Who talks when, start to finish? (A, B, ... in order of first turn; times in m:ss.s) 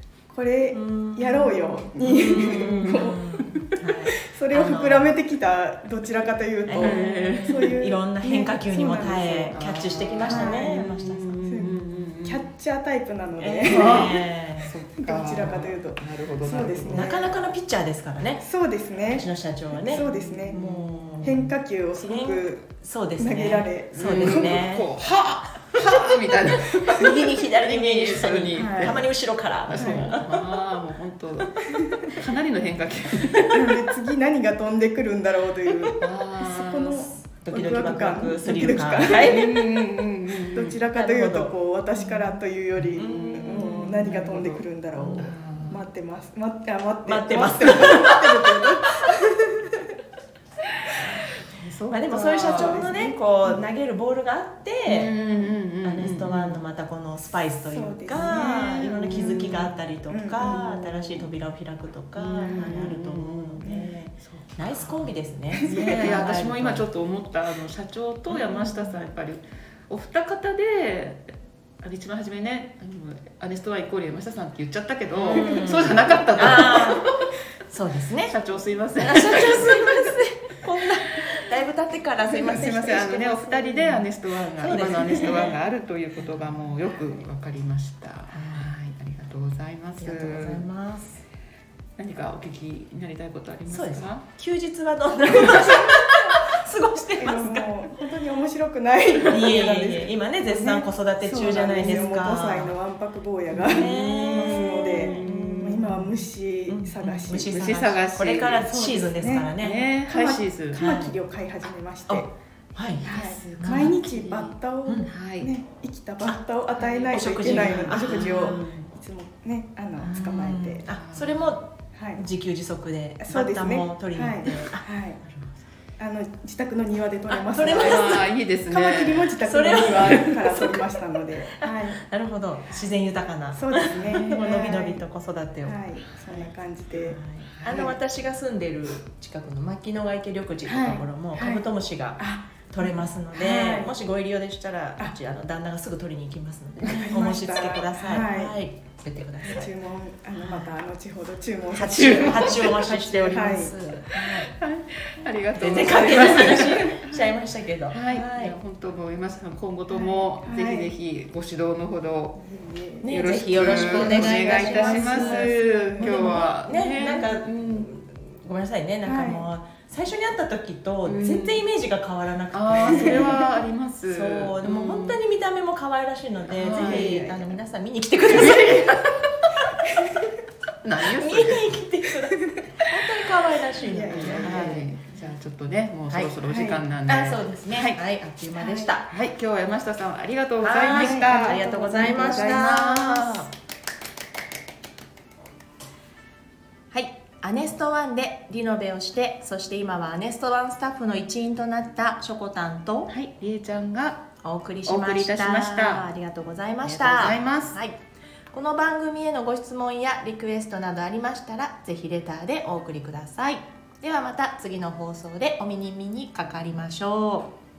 0:00.3-0:03.3 A
0:00.7-0:04.1 B
0:02.1-0:03.7 C
0:04.3-0:09.6 A
0:04.5-0:05.1 C
0:06.6-0:11.4 B
0:06.7-0:07.7 C
0:09.5-0:12.5 C
0:10.2-0:10.8 A
0:11.4-0:14.2 A
0:13.4-0:14.7 B
0:13.6-0:17.2 C
0:15.0-0:17.4 A
0:16.7-0:18.4 B
0:18.4-0:22.6 A
0:19.0-0:24.9 B
0:19.9-0:20.6 C
0:23.2-0:24.6 A
0:23.9-0:29.1 C
0:26.4-0:30.6 B
0:28.5-0:29.0 A
0:29.6-0:33.5 C
0:29.7-0:30.2 A
0:33.3-0:33.6 B
0:33.5-0:39.6 A
0:36.0-0:37.1 C
0:37.0-0:39.5 B
0:38.5-0:40.8 C
0:40.5-0:49.7 A
0:40.9-0:41.5 B
0:41.9-0:45.8 C
0:43.0-0:44.1 B
0:45.0-0:45.3 B
0:47.0-0:48.7 B
0:51.0-0:52.9 C
0:51.9-0:55.1 B
0:52.4-0:53.2 A
0:54.9-0:56.6 C
0:55.8-1:06.9 B
0:57.7-0:59.4 A
0:58.5-0:59.8 C
1:00.1-1:00.8 A
1:00.4-1:01.3 C
1:02.1-1:05.1 C
1:02.4-1:02.9 A
1:03.6-1:04.0 A
1:05.5-1:05.8 A
1:05.6-1:17.1 C
1:08.3-1:09.1 B
1:15.1-1:17.1 B
1:17.7-1:18.4 B
1:18.3-1:19.9 C
1:19.0-1:25.6 B
1:22.2-1:30.6 C
1:24.8-1:25.5 A
1:26.2-1:26.7 B
1:28.3-1:28.8 B
1:30.0-1:31.2 B
1:32.0-1:34.2 C
1:33.7-1:37.9 B
1:37.2-1:47.5 A
1:39.3-1:42.8 B
1:43.5-1:49.9 B
1:43.6-1:46.0 C
1:47.3-1:48.7 C
1:48.5-1:49.5 A
1:49.6-1:50.8 C
1:50.0-1:52.3 A
1:50.7-1:51.2 B
1:52.1-1:54.0 B
1:53.0-1:54.6 C
1:53.0-2:00.9 A
1:55.1-1:55.5 C
1:56.8-1:58.9 C
1:57.1-1:58.7 B
2:00.0-2:04.8 B
2:00.8-2:01.6 C
2:01.9-2:02.2 A
2:03.2-2:05.2 A
2:06.0-2:12.0 A
2:07.3-2:08.2 B
2:07.6-2:10.4 C
2:09.4-2:10.9 B
2:11.6-2:29.7 B
2:13.5-2:15.0 A
2:13.9-2:14.2 C
2:15.6-2:18.0 A
2:17.4-2:18.0 C
2:20.6-2:23.9 A
2:26.8-2:28.6 A
2:29.4-2:33.8 A
2:30.3-2:30.7 B
2:31.7-2:34.5 B
2:32.0-2:32.9 C
2:34.1-2:37.1 C
2:35.6-2:38.6 B
2:37.9-2:42.4 C
2:39.9-2:40.9 A
2:42.4-2:46.4 A
2:43.0-2:53.5 B
2:43.1-2:47.9 C
2:49.0-2:49.5 A
2:51.0-2:51.7 C
2:52.5-2:55.2 C
2:54.1-2:59.7 B
2:56.5-2:57.2 C
2:56.7-2:57.6 A
2:59.6-3:00.3 A
3:00.8-3:01.7 C
3:01.0-3:04.9 B
3:02.3-3:02.8 A
3:03.8-3:04.9 A
3:04.1-3:08.0 C
3:06.1-3:06.4 B
3:06.4-3:06.8 A
3:07.1-3:09.1 B
3:08.5-3:09.0 A
3:09.1-3:13.5 C
3:10.6-3:13.5 B
3:10.9-3:12.6 A
3:16.9-3:23.1 B
3:23.1-3:24.3 C
3:24.4-3:28.0 B
3:24.8-3:26.1 C
3:26.8-3:27.8 C
3:28.5-3:37.5 B